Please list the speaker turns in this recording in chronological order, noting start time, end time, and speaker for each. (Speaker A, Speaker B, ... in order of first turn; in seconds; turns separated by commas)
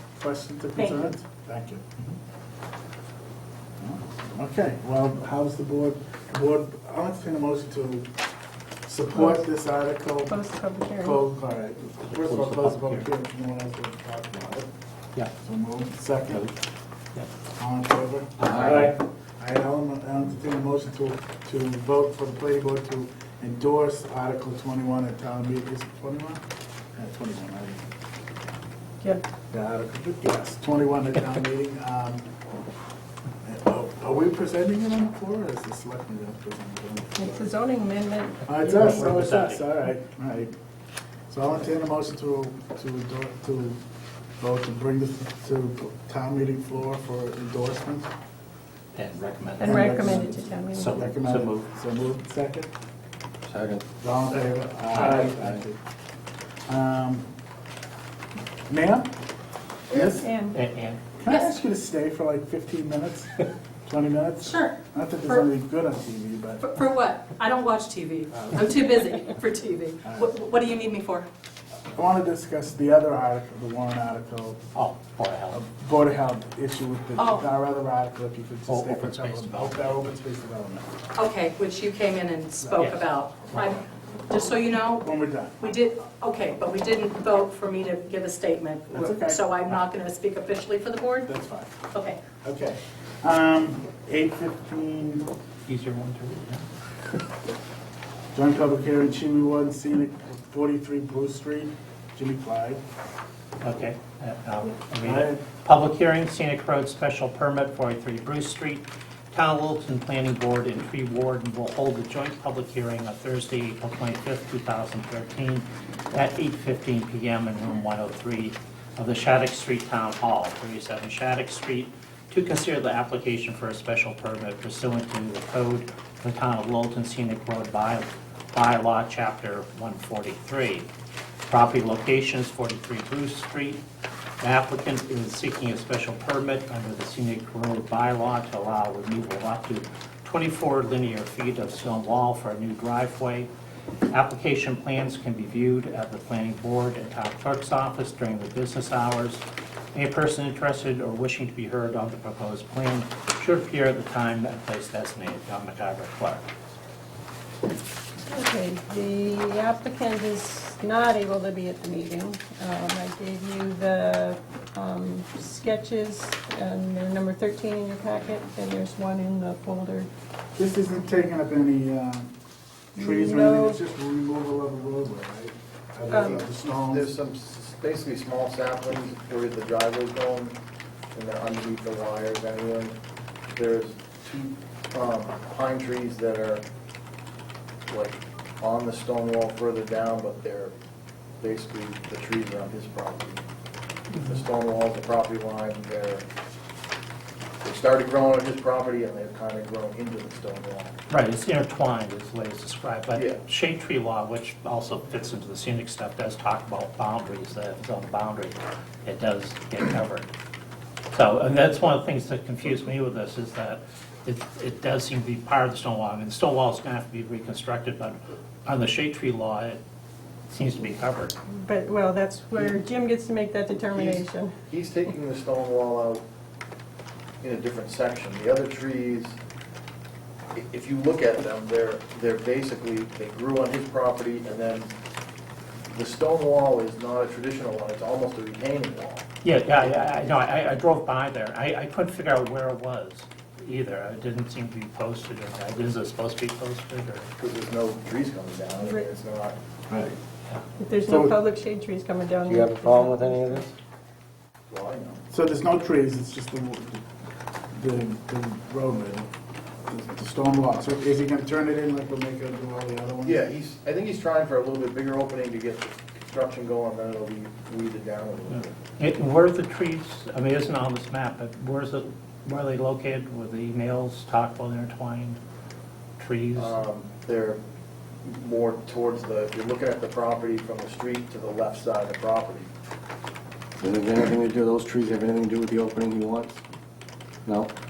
Speaker A: 0.2-2.0, Speaker A: 3.8-8.1, Speaker A: 8.9-10.4, Speaker B: 10.3-11.2, Speaker A: 11.0-14.7, Speaker C: 12.0-13.1, Speaker A: 15.4-16.5, Speaker A: 17.6-26.4, Speaker C: 18.4-19.0, Speaker A: 26.9-27.9, Speaker A: 29.5-32.3, Speaker A: 33.4-37.5, Speaker B: 37.2-39.1, Speaker A: 38.5-40.5, Speaker C: 38.6-39.6, Speaker A: 41.3-43.8, Speaker A: 44.4-48.1, Speaker C: 49.0-50.2, Speaker B: 49.6-51.0, Speaker A: 49.6-52.7, Speaker C: 50.7-51.7, Speaker D: 53.5-53.8, Speaker A: 54.0-55.8, Speaker D: 54.9-55.6, Speaker A: 56.7-57.3, Speaker A: 58.7-59.1, Speaker A: 59.9-60.4, Speaker B: 60.2-60.6, Speaker C: 60.5-61.0, Speaker A: 61.2-66.7, Speaker E: 64.5-65.4, Speaker E: 66.6-71.3, Speaker A: 68.3-68.6, Speaker A: 70.0-70.3, Speaker A: 71.9-74.6, Speaker C: 74.7-75.6, Speaker A: 75.5-80.9, Speaker E: 77.2-77.5, Speaker C: 78.7-80.1, Speaker E: 81.2-85.0, Speaker C: 82.8-83.7, Speaker A: 84.9-85.6, Speaker E: 85.6-91.3, Speaker A: 88.9-89.5, Speaker A: 91.3-91.7, Speaker E: 91.9-92.2, Speaker A: 92.4-95.3, Speaker C: 95.7-96.6, Speaker A: 98.3-102.8, Speaker C: 103.6-130.9, Speaker A: 105.0-105.4, Speaker C: 131.5-133.8, Speaker C: 134.4-143.5, Speaker C: 144.1-156.4, Speaker B: 158.2-170.1, Speaker A: 170.6-172.3, Speaker A: 172.9-177.1, Speaker B: 173.0-173.8, Speaker B: 176.1-176.4, Speaker F: 176.1-180.6, Speaker F: 181.1-182.9, Speaker F: 183.5-186.6, Speaker F: 187.9-190.7, Speaker F: 191.4-193.4, Speaker F: 194.1-196.2, Speaker F: 197.6-200.9, Speaker C: 201.1-210.3, Speaker F: 203.1-203.4, Speaker C: 211.1-219.8, Speaker C: 220.5-221.3, Speaker B: 221.5-224.5, Speaker F: 223.7-226.2, Speaker F: 227.4-229.4, Speaker F: 230.5-234.9, Speaker F: 235.9-239.3, Speaker C: 239.4-247.3, Speaker F: 239.8-240.3, Speaker F: 247.4-249.6, Speaker B: 250.8-253.7, Speaker D: 252.4-253.7, Speaker F: 254.7-255.2, Speaker A: 255.3-257.0, Speaker A: 257.7-259.3, Speaker A: 259.9-263.4, Speaker F: 263.2-268.8, Speaker C: 269.0-275.4, Speaker C: 276.2-276.8, Speaker F: 276.6-277.6, Speaker F: 278.2-282.7, Speaker D: 283.8-286.6, Speaker D: 287.5-287.7